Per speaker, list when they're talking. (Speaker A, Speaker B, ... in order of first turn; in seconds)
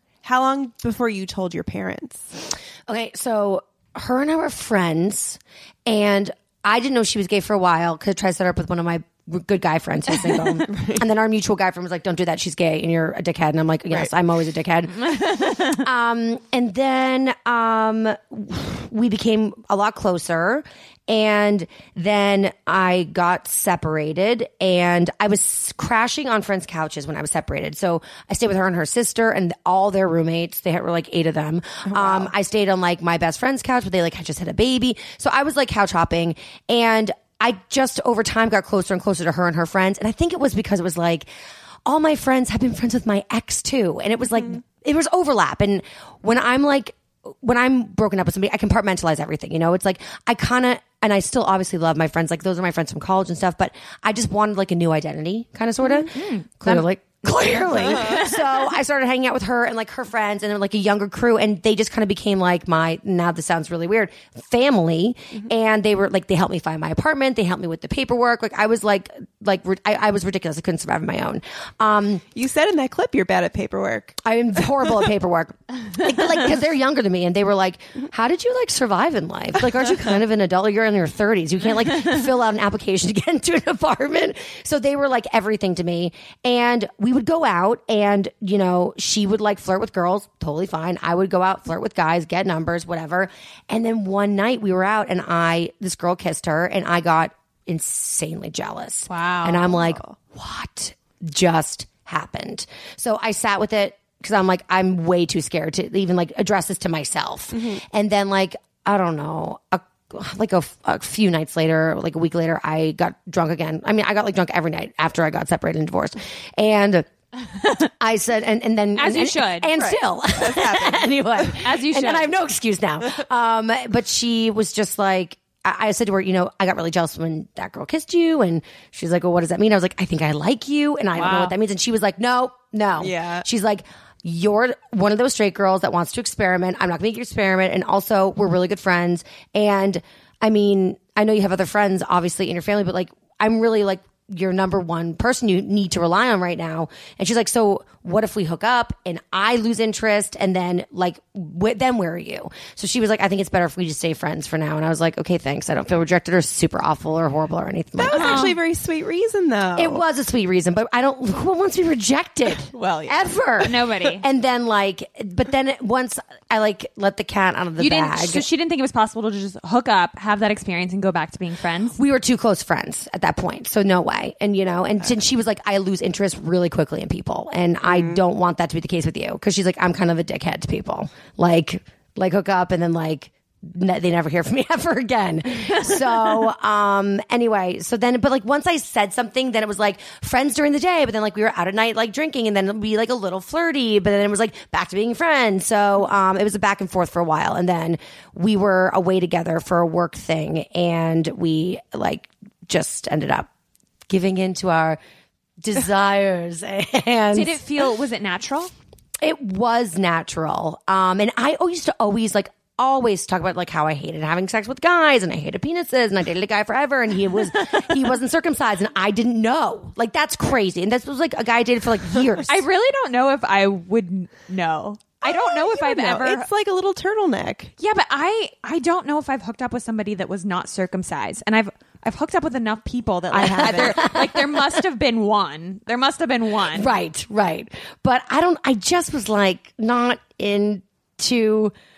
Speaker A: 0.2-2.3, 10.7-11.0, 31.9-32.3, 57.5-58.3, 72.3-74.2, 99.7-100.2, 107.5-107.8, 119.7-121.6, 133.0-133.4, 158.0-160.0, 162.7-163.8, 177.9-178.2, 225.2-227.7, 233.3-234.1
Speaker B: 2.9-41.2, 41.9-72.2, 74.2-117.1, 117.8-158.5, 159.8-168.4, 172.0-203.5, 204.1-205.0, 205.6-207.6, 209.2-222.6, 233.4-234.4, 236.7-241.7
Speaker C: 15.2-15.7, 56.1-56.5, 99.1-99.7, 119.0-119.8, 121.6-122.3, 131.1-131.5, 158.1-158.6, 163.6-164.2, 167.8-172.0, 207.3-208.7, 222.5-226.5, 227.8-236.9